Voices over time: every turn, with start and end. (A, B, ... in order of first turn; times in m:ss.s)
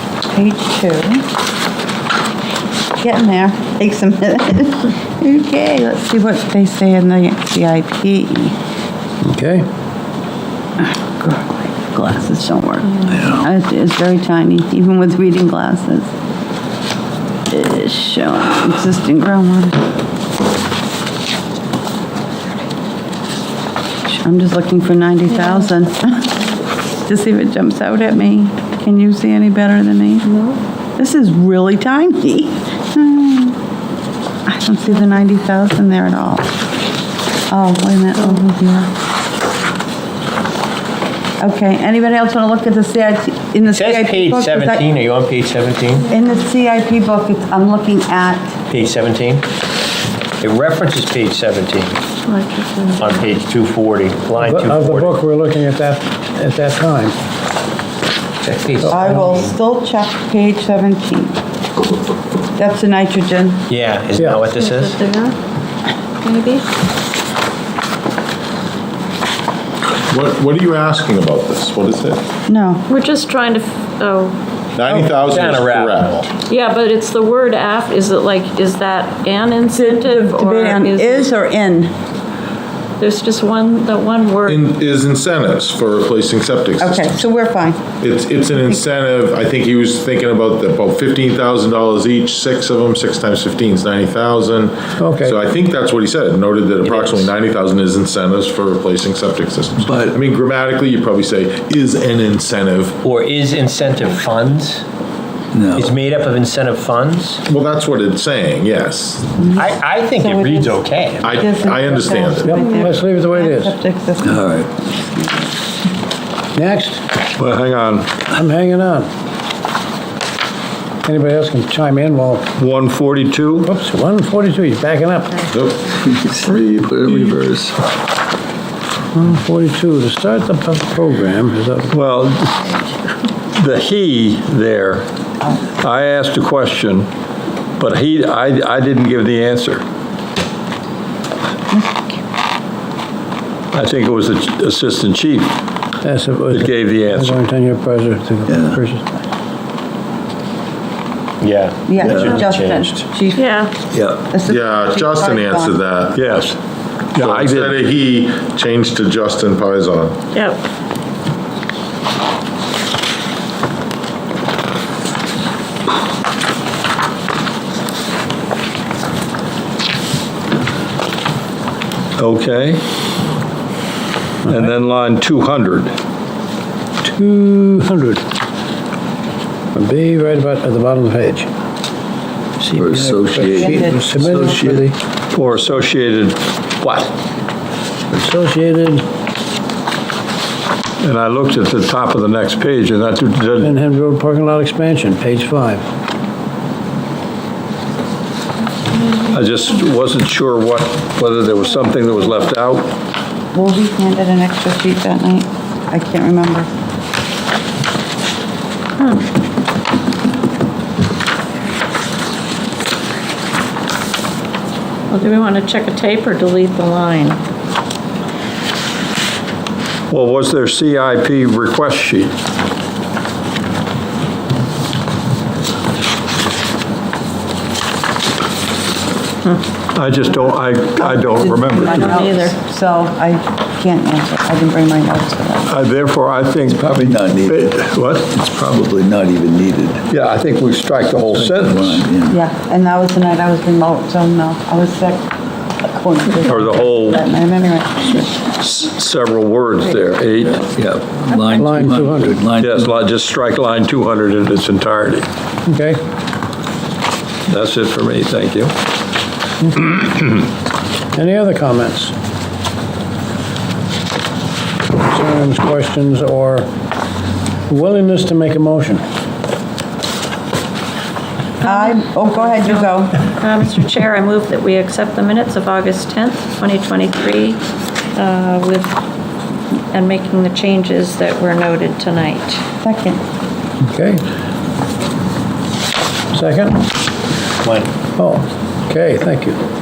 0:00.3-0:01.2 A
0:03.0-0:08.5 A
0:09.2-0:09.6 B
0:10.8-0:16.1 A
0:13.1-0:13.4 C
0:17.5-0:19.8 A
0:24.1-0:26.4 A
0:25.3-0:25.7 D
0:27.0-0:30.3 A
0:30.2-0:30.6 D
0:31.0-0:33.6 A
0:34.5-0:36.5 A
0:37.5-0:38.9 A
0:41.4-0:44.9 A
0:43.7-0:46.1 E
0:46.1-0:48.6 A
0:48.7-0:49.5 E
0:50.4-0:52.0 E
0:52.2-0:53.3 D
0:53.0-0:55.2 E
0:54.4-0:57.1 B
0:58.4-0:59.5 E
0:58.8-0:59.2 B
0:58.9-1:01.4 A
1:02.6-1:03.6 A
1:03.7-1:05.0 E
1:04.5-1:05.4 D
1:06.2-1:06.6 D
1:10.1-1:12.2 F
1:12.5-1:12.8 A
1:12.9-1:14.4 D
1:14.8-1:16.1 F
1:14.8-1:16.3 E
1:16.5-1:21.3 D
1:19.7-1:21.9 A
1:23.0-1:24.6 D
1:24.4-1:27.2 F
1:26.8-1:27.9 A
1:28.0-1:43.0 F
1:35.0-1:35.4 B
1:36.8-1:37.3 E
1:39.8-1:40.2 C
1:43.0-1:44.8 E
1:45.5-1:45.9 C
1:45.8-1:47.4 E
1:47.5-1:49.4 F
1:49.4-1:55.5 A
1:49.5-1:51.3 E
1:51.2-1:53.0 F
1:52.4-1:53.8 B
1:54.2-1:54.7 C
1:56.5-1:57.0 B
1:57.4-1:58.2 G
1:58.3-1:59.1 B
2:01.0-2:02.5 B
2:02.6-2:03.7 G
2:03.6-2:05.5 B
2:05.5-2:05.9 F
2:06.0-2:07.8 C
2:09.1-2:12.0 B
2:11.9-2:12.7 G
2:13.6-2:15.1 G
2:15.8-2:17.1 G
2:17.8-2:19.8 G
2:21.7-2:22.2 A
2:23.7-2:25.5 G
2:26.0-2:29.1 B
2:26.5-2:27.4 G
2:28.5-2:28.8 C
2:31.4-2:33.0 E
2:31.9-2:33.5 A
2:32.0-2:32.4 C
2:33.3-2:33.7 D
2:33.9-2:34.2 G
2:34.3-2:35.8 A
2:34.4-2:36.4 F
2:36.1-2:36.6 G
2:37.1-2:37.8 G
2:37.2-2:40.2 F
2:40.3-2:40.6 D
2:52.2-2:52.8 G
2:54.4-2:55.9 G
2:57.0-2:58.2 B
2:59.7-3:01.5 B
3:02.6-3:04.9 B
3:02.7-3:04.9 C
3:03.6-3:04.0 A
3:05.3-3:07.1 G
3:08.1-3:09.0 B
3:11.0-3:13.8 G
3:13.6-3:15.8 B
3:19.3-3:22.9 G
3:23.5-3:26.7 A
3:35.1-3:37.4 D
3:40.1-3:42.3 G
3:49.9-3:52.1 G
3:51.0-3:55.8 A
3:51.8-3:52.5 D
3:55.7-3:58.3 G
3:57.0-4:00.0 C
4:00.1-4:02.0 G
4:01.3-4:02.4 C
4:02.3-4:05.3 A
4:05.8-4:08.3 A
4:06.4-4:07.2 G
4:08.6-4:11.0 G
4:10.8-4:12.9 C
4:11.5-4:12.4 B
4:12.6-4:15.3 G
4:15.6-4:16.0 B
4:17.5-4:18.7 G
4:21.1-4:22.1 B
4:25.0-4:26.7 B
4:27.7-4:29.0 B
4:31.6-4:33.1 A
4:31.6-4:37.6 D
4:38.1-4:38.9 D
4:39.9-4:42.6 D
4:42.8-4:43.2 A
4:43.8-4:44.2 B
4:46.3-4:46.8 B
4:47.6-4:47.9 E
4:48.1-4:49.6 B